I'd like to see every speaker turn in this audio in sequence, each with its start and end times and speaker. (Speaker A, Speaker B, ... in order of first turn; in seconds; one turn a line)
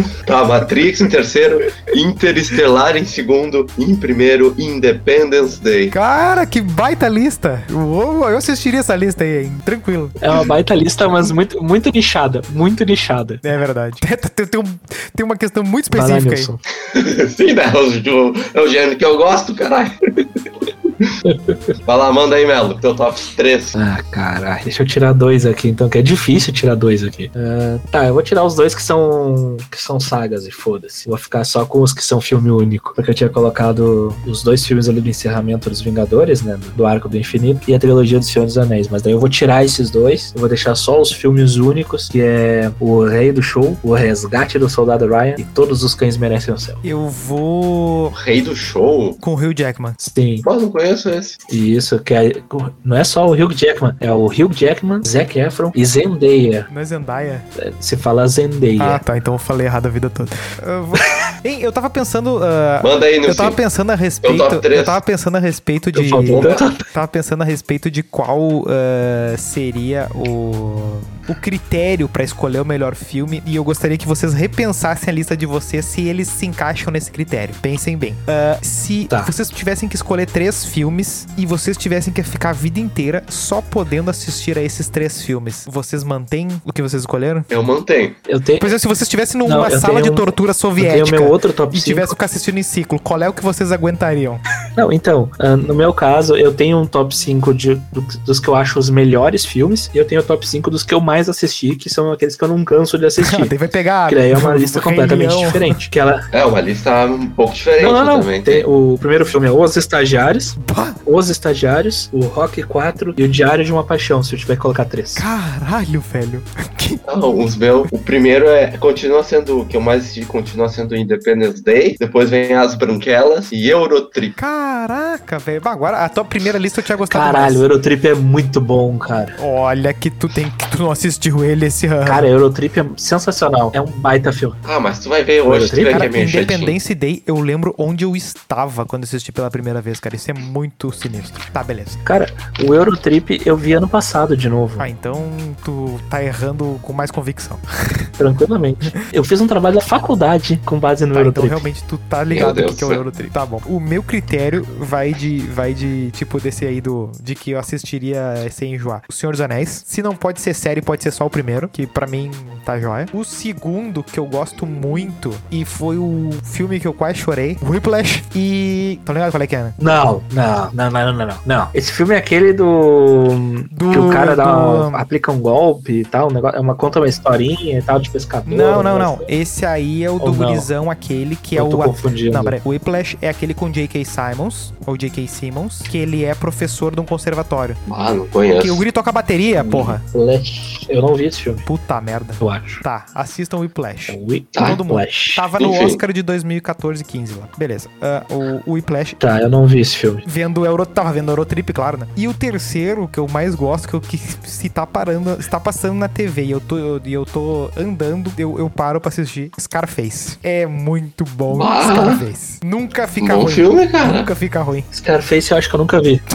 Speaker A: 0.3-6.0
Speaker B: 5.9-10.2
Speaker C: 10.2-13.4
Speaker B: 13.4-16.5
Speaker C: 15.9-16.6
Speaker A: 16.9-20.2
Speaker C: 21.2-21.7
Speaker A: 21.9-23.7
Speaker C: 23.7-46.8
Speaker B: 46.8-48.1
Speaker A: 48.1-49.2
Speaker B: 49.2-50.0
Speaker C: 50.0-50.5
Speaker A: 50.5-51.4
Speaker C: 51.5-56.7
Speaker B: 56.7-57.5
Speaker C: 57.6-59.0
Speaker B: 58.8-87.5
Speaker A: 62.8-63.6
Speaker A: 64.2-65.0
Speaker C: 65.9-66.8
Speaker A: 66.3-66.7
Speaker A: 87.5-88.2
Speaker C: 88.3-88.7
Speaker B: 88.6-94.4
Speaker C: 89.5-92.2
Speaker C: 94.8-103.5
Speaker B: 103.2-105.8
Speaker C: 104.1-106.3
Speaker A: 106.3-108.7
Speaker C: 107.8-115.3
Speaker B: 110.6-111.0
Speaker B: 115.2-117.0
Speaker A: 117.1-124.4
Speaker B: 124.4-127.7
Speaker C: 127.1-129.4
Speaker B: 129.4-132.3
Speaker C: 132.1-134.6
Speaker A: 134.7-136.8
Speaker C: 135.4-136.1
Speaker B: 135.9-142.0
Speaker C: 142.1-144.9
Speaker B: 144.8-148.1
Speaker C: 148.2-151.7
Speaker B: 151.1-169.8
Speaker A: 152.3-153.0
Speaker C: 169.8-179.3
Speaker B: 173.7-175.0
Speaker B: 178.5-187.8
Speaker C: 180.2-180.7
Speaker C: 181.6-182.6
Speaker A: 187.9-188.8
Speaker B: 188.6-190.0
Speaker A: 189.6-190.0
Speaker C: 190.1-191.7
Speaker B: 191.7-199.2
Speaker C: 192.4-192.8
Speaker C: 194.1-195.5
Speaker A: 194.6-194.8
Speaker A: 195.6-196.0
Speaker C: 199.2-200.2
Speaker B: 200.2-214.9
Speaker A: 211.5-212.2
Speaker A: 213.2-214.3
Speaker C: 214.9-216.2